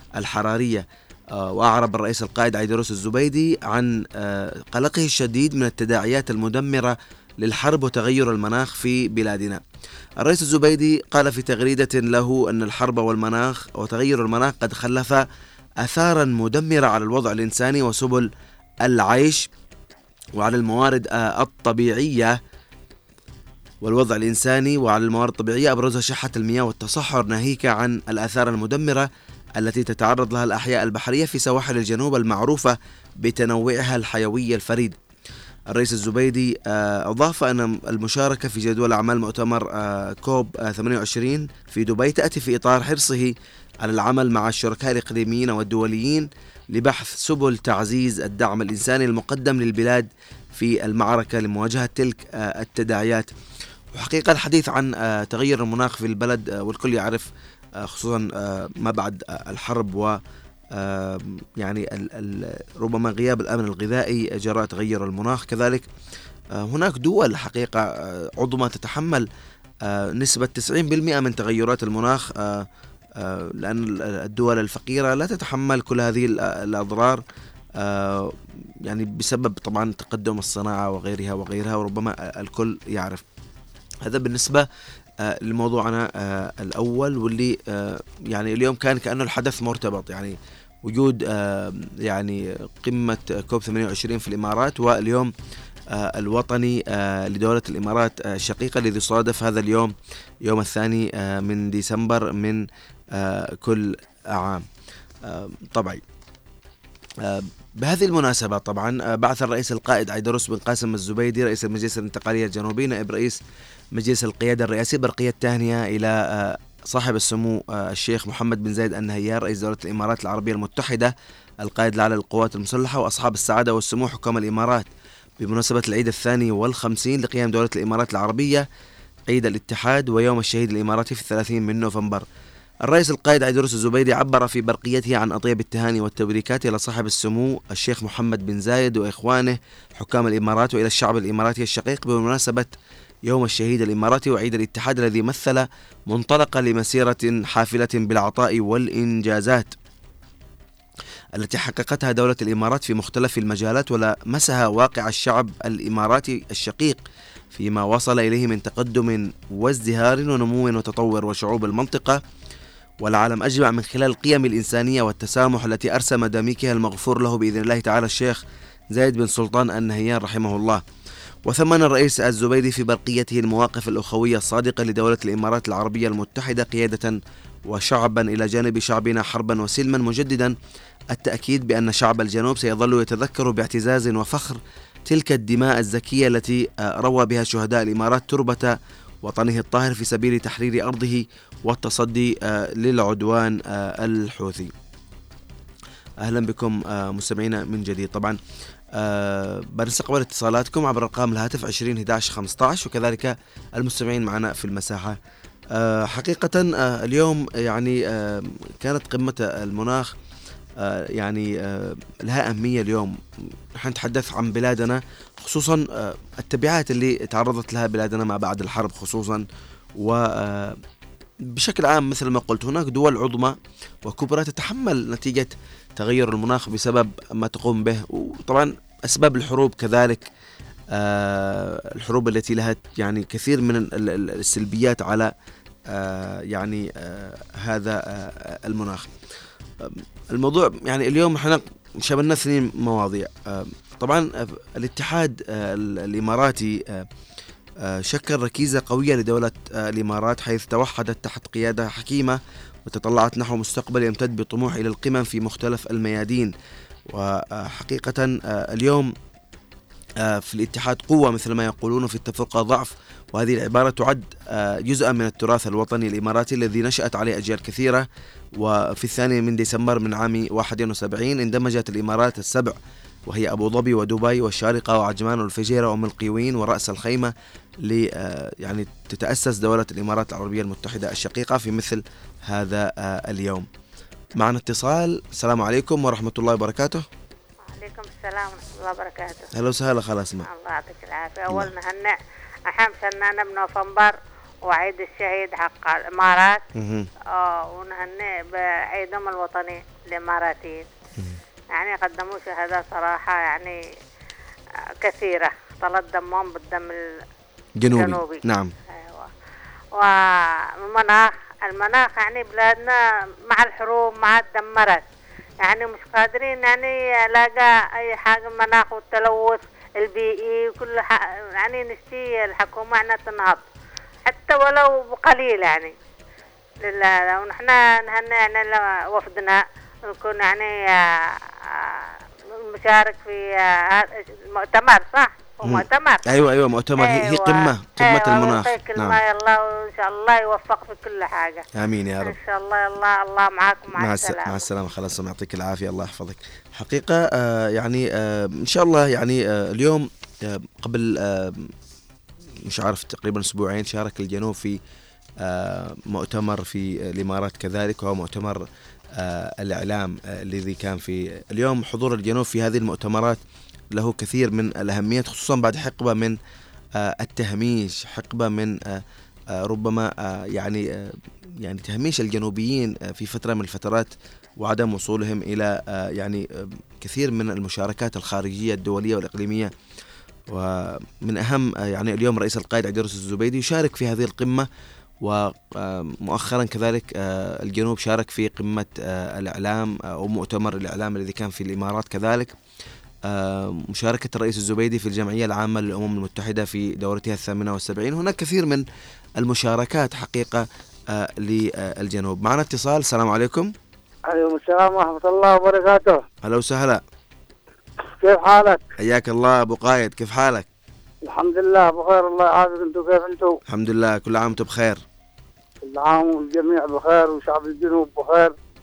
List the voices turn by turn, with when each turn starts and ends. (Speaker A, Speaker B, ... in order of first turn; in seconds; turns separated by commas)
Speaker A: 0.2-9.6, Speaker A: 10.2-15.2, Speaker A: 15.8-18.3, Speaker A: 18.8-19.5, Speaker A: 20.4-22.4, Speaker A: 23.8-35.0, Speaker A: 35.7-53.3, Speaker A: 53.9-57.3, Speaker A: 57.8-60.2, Speaker A: 60.7-65.9, Speaker A: 66.6-67.8, Speaker A: 68.4-69.3, Speaker A: 69.9-72.7, Speaker A: 73.2-77.2, Speaker A: 77.8-83.2, Speaker A: 84.0-84.7, Speaker A: 85.2-95.3, Speaker A: 95.9-99.9, Speaker A: 100.5-104.7, Speaker A: 105.2-106.0, Speaker A: 107.2-113.4, Speaker A: 113.9-124.9, Speaker A: 125.4-128.7, Speaker A: 129.3-132.3, Speaker A: 132.9-142.7, Speaker A: 143.3-149.7, Speaker A: 151.4-157.0, Speaker A: 157.5-162.2, Speaker A: 163.0-168.4, Speaker A: 168.9-170.8, Speaker A: 171.5-180.6, Speaker A: 181.1-194.7, Speaker A: 196.2-198.4, Speaker A: 198.9-205.2, Speaker A: 205.7-210.1, Speaker A: 210.8-213.2, Speaker A: 213.8-219.5, Speaker A: 220.0-220.8, Speaker A: 221.5-230.3, Speaker A: 230.9-235.3, Speaker A: 235.9-239.1, Speaker A: 239.8-247.1, Speaker A: 247.8-256.5, Speaker A: 257.1-259.1, Speaker A: 260.2-268.1, Speaker A: 268.6-272.8, Speaker A: 273.3-277.3, Speaker A: 277.9-283.7, Speaker A: 284.4-287.0, Speaker B: 287.6-289.5, Speaker A: 289.5-290.5, Speaker B: 290.5-292.2, Speaker B: 292.7-294.1, Speaker B: 294.7-296.6, Speaker A: 296.8-297.1, Speaker B: 297.4-300.9, Speaker B: 301.8-303.8, Speaker B: 305.0-307.0, Speaker A: 307.8-308.7, Speaker B: 307.9-309.3, Speaker B: 310.9-313.0, Speaker B: 313.5-315.1, Speaker B: 315.6-323.6, Speaker B: 324.3-325.9, Speaker B: 326.9-331.0, Speaker B: 332.6-336.2, Speaker A: 335.6-339.2, Speaker B: 337.0-341.6, Speaker A: 341.7-342.4, Speaker B: 342.2-344.7, Speaker A: 343.9-351.7, Speaker A: 352.7-354.8, Speaker A: 355.4-358.6, Speaker A: 359.2-363.4, Speaker A: 363.9-366.4, Speaker A: 367.0-369.0, Speaker A: 369.5-379.7, Speaker A: 380.5-384.7, Speaker A: 385.2-392.6, Speaker A: 393.3-398.9, Speaker A: 399.4-403.7, Speaker C: 404.3-406.2, Speaker A: 406.4-407.0, Speaker C: 408.2-408.8, Speaker A: 409.0-410.7, Speaker C: 411.3-413.5, Speaker A: 413.7-415.0, Speaker C: 415.9-418.5